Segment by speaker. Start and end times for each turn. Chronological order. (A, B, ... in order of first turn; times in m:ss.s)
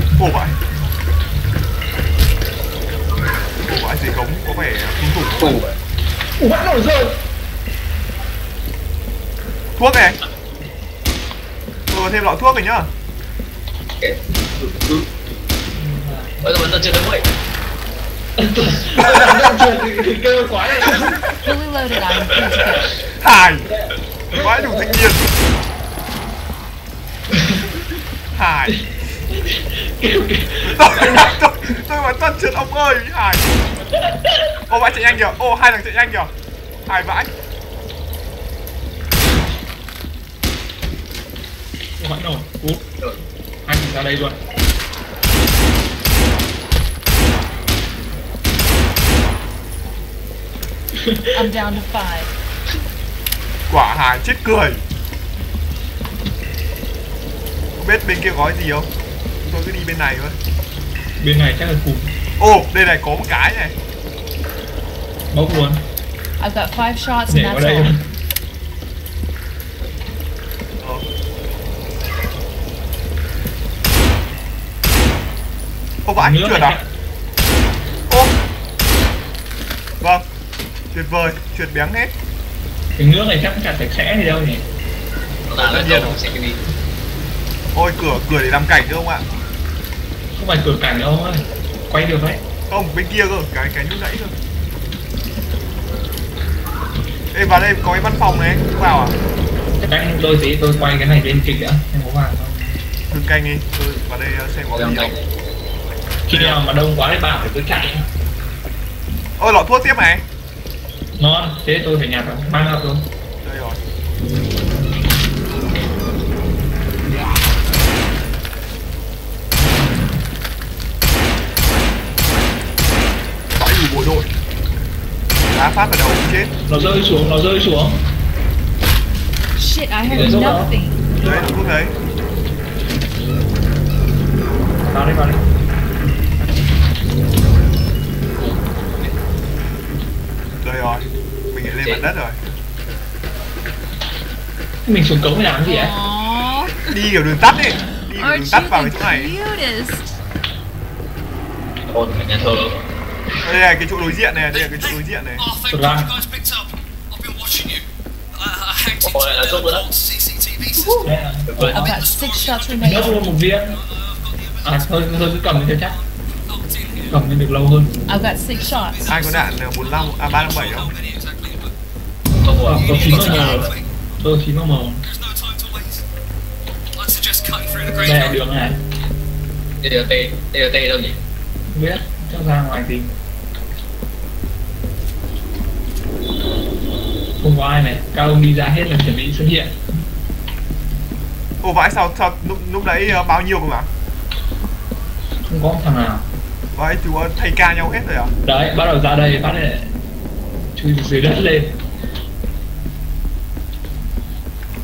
0:00.2-0:00.6 A
0:03.6-0:05.6 A
0:05.4-0:05.8 B
0:06.4-0:07.2 C
0:09.8-0:10.2 A
0:11.9-0:12.9 A
0:14.0-0:15.1 B
0:15.7-0:16.6 C
0:16.4-0:17.3 B
0:18.4-0:21.2 C
0:19.0-0:19.2 A
0:21.4-0:23.0 D
0:23.0-0:23.7 A
0:24.3-0:25.3 A
0:28.3-0:28.8 A
0:28.7-0:31.4 C
0:30.6-0:33.6 A
0:34.0-0:34.6 C
0:34.7-0:36.3 A
0:36.9-0:37.3 A
0:42.0-0:42.8 C
0:43.6-0:44.4 C
0:50.9-0:51.5 C
0:51.3-0:52.3 D
0:53.7-0:54.8 A
0:57.8-0:58.9 A
0:59.4-1:00.4 A
1:01.2-1:02.1 C
1:02.4-1:03.8 A
1:05.3-1:05.8 C
1:06.4-1:07.9 D
1:07.3-1:08.0 C
1:10.8-1:11.1 A
1:16.0-1:16.8 A
1:16.2-1:16.9 C
1:18.1-1:18.3 A
1:20.0-1:20.2 A
1:20.9-1:22.1 A
1:23.0-1:24.6 C
1:25.5-1:26.6 B
1:25.6-1:26.2 A
1:27.7-1:29.2 A
1:30.4-1:32.4 C
1:32.7-1:34.4 A
1:37.3-1:39.2 A
1:39.8-1:42.8 C
1:43.1-1:45.2 A
1:44.7-1:45.3 B
1:46.3-1:48.1 C
1:46.3-1:46.6 A
1:49.4-1:50.2 A
1:51.2-1:53.1 C
1:53.4-1:53.8 A
2:03.6-2:04.3 A
2:05.4-2:06.5 A
2:06.7-2:08.0 C
2:09.6-2:11.1 D
2:10.1-2:10.8 C
2:10.1-2:10.5 B
2:11.2-2:12.0 A
2:14.8-2:15.4 C
2:20.6-2:22.4 A
2:21.7-2:22.1 B
2:24.8-2:25.9 C
2:25.6-2:27.0 D
2:26.9-2:29.3 A
2:28.1-2:30.0 D
2:31.9-2:32.8 B
2:33.4-2:35.4 A
2:34.5-2:41.1 E
2:35.7-2:36.2 C
2:39.0-2:39.9 B
2:41.0-2:41.9 B
2:41.0-2:41.9 C
2:41.7-2:43.2 D
2:41.8-2:47.2 E
2:42.8-2:43.8 C
2:44.6-2:46.0 C
2:47.1-2:48.0 C
2:48.1-2:49.1 D
2:48.5-2:51.7 E
2:49.1-2:50.9 A
2:52.4-2:53.7 B
2:52.6-2:55.0 C
2:52.6-2:53.9 E
2:55.0-2:56.0 E
2:56.9-2:58.4 E
2:58.0-2:58.8 C
2:59.8-3:01.2 B
3:01.7-3:03.1 C
3:07.4-3:09.8 C
3:11.6-3:13.9 A
3:15.5-3:16.3 C
3:16.7-3:18.3 A
3:18.4-3:19.9 C
3:20.7-3:21.8 C